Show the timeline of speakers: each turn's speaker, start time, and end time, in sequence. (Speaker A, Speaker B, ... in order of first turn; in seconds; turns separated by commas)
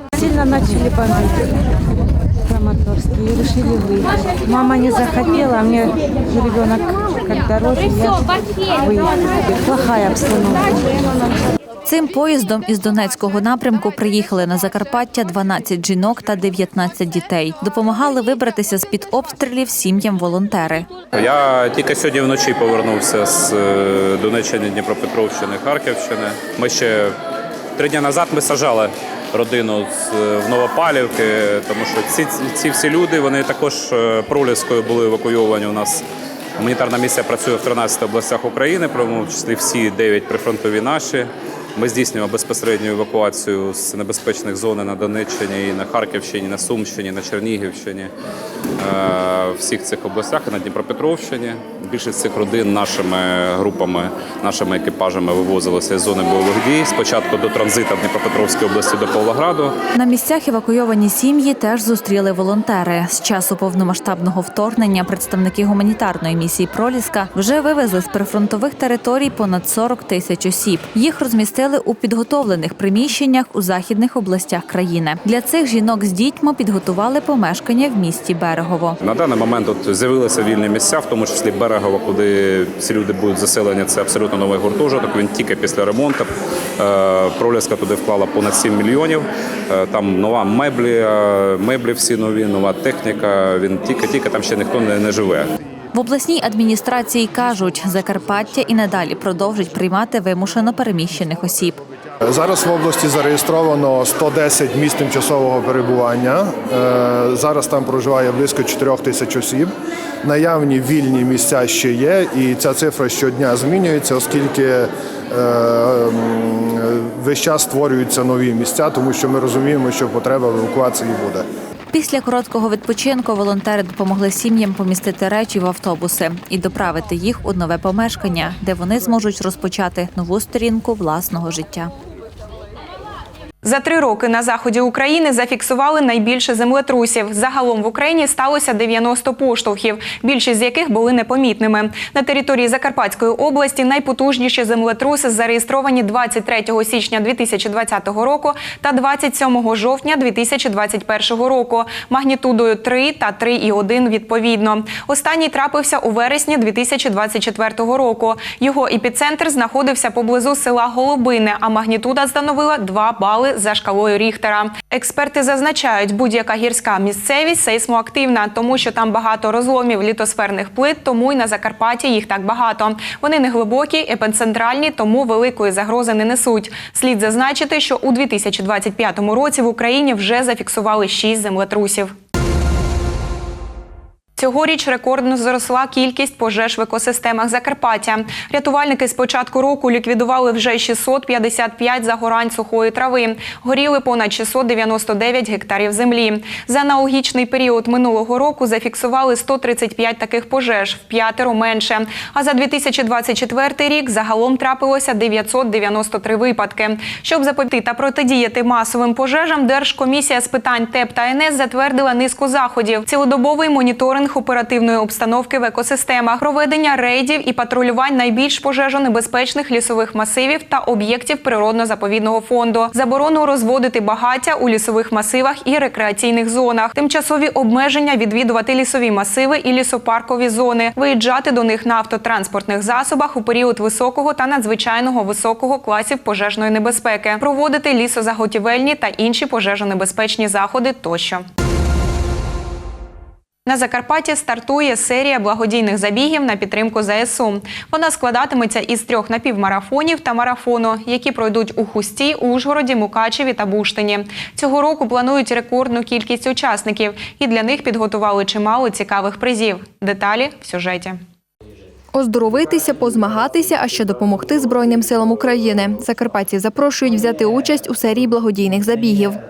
Speaker A: 0.1-11.1, Speaker B: 11.8-20.9, Speaker C: 21.1-27.2, Speaker C: 27.8-36.0, Speaker C: 36.6-48.1, Speaker C: 48.8-59.8, Speaker B: 59.9-79.0, Speaker C: 79.0-95.5, Speaker B: 95.9-101.8, Speaker D: 102.2-109.7, Speaker D: 110.2-121.4, Speaker B: 121.9-131.9, Speaker E: 133.6-182.1, Speaker E: 184.3-241.4, Speaker E: 243.7-261.2, Speaker F: 262.1-269.4